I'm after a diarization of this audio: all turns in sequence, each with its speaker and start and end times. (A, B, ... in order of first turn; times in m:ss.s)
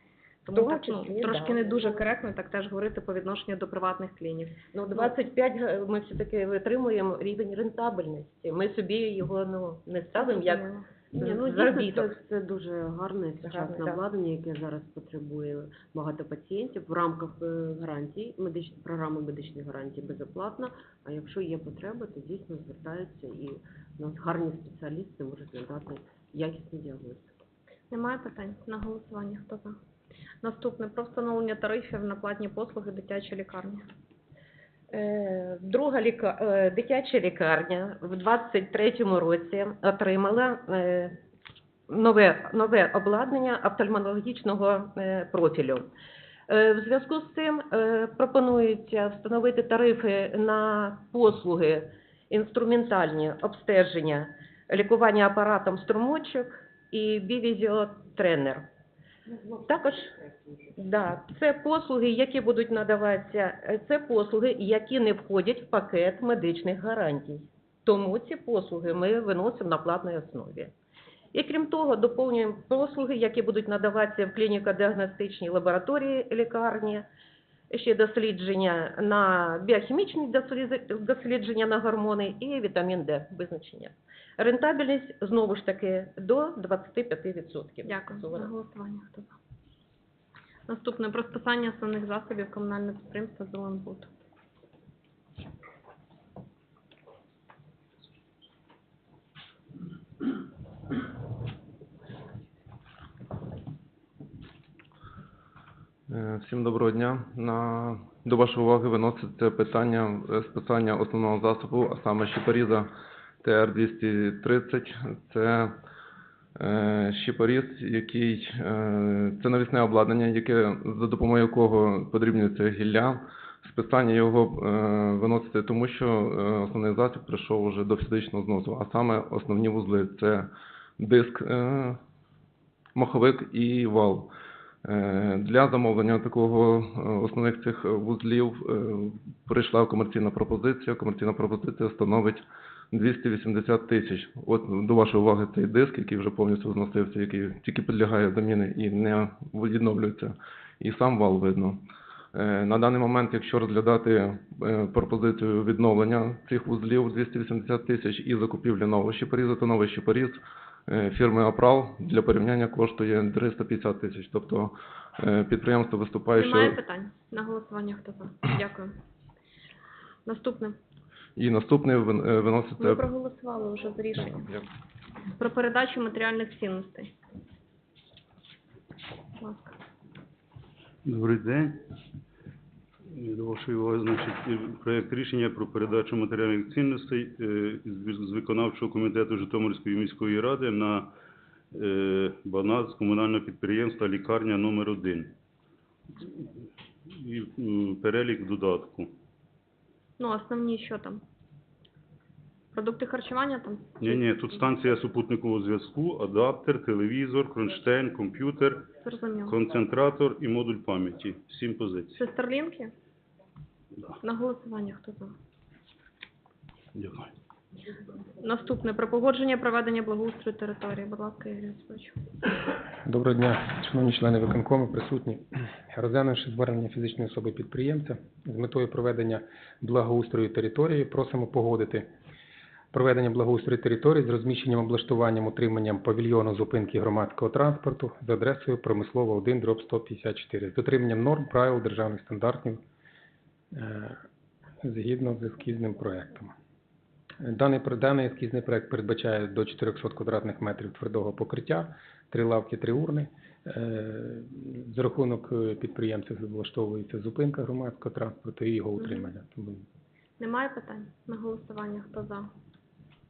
0:00.4-0:05.1 A
0:00.5-0:01.8 B
0:04.7-0:12.2 B
0:10.1-0:10.9 A
0:11.1-0:27.3 C
0:13.4-0:14.0 B
0:27.9-0:29.8 A
0:30.4-0:33.8 A
0:34.9-0:41.2 B
0:41.9-0:45.9 B
0:46.5-0:58.6 B
0:59.6-1:00.1 B
1:00.8-1:10.7 B
1:11.3-1:17.0 B
1:17.7-1:28.5 B
1:27.8-1:29.3 A
1:30.7-1:34.1 A
1:46.1-1:52.9 D
1:53.4-1:55.8 D
1:56.6-2:12.0 D
2:12.9-2:14.3 D
2:14.8-2:31.8 D
2:32.3-2:46.8 D
2:46.3-2:48.9 A
2:50.2-2:50.8 A
2:51.4-2:53.0 D
2:52.8-2:54.5 A
2:55.4-2:57.1 A
2:59.4-2:59.7 A
3:01.0-3:01.8 E
3:03.2-3:11.1 E
3:11.7-3:15.3 E
3:16.2-3:16.5 E
3:17.2-3:19.1 E
3:20.2-3:21.2 A
3:22.7-3:24.2 A
3:24.0-3:28.8 E
3:29.0-3:29.6 A
3:29.4-3:32.2 E
3:32.2-3:32.9 A
3:34.2-3:35.3 A
3:36.9-3:37.3 E
3:38.4-3:42.1 A
3:43.0-3:52.1 F
3:52.9-4:02.8 F
4:03.7-4:04.2 F
4:04.8-4:06.5 F
4:07.4-4:19.8 F
4:19.0-4:19.3 A
4:20.4-4:22.5 A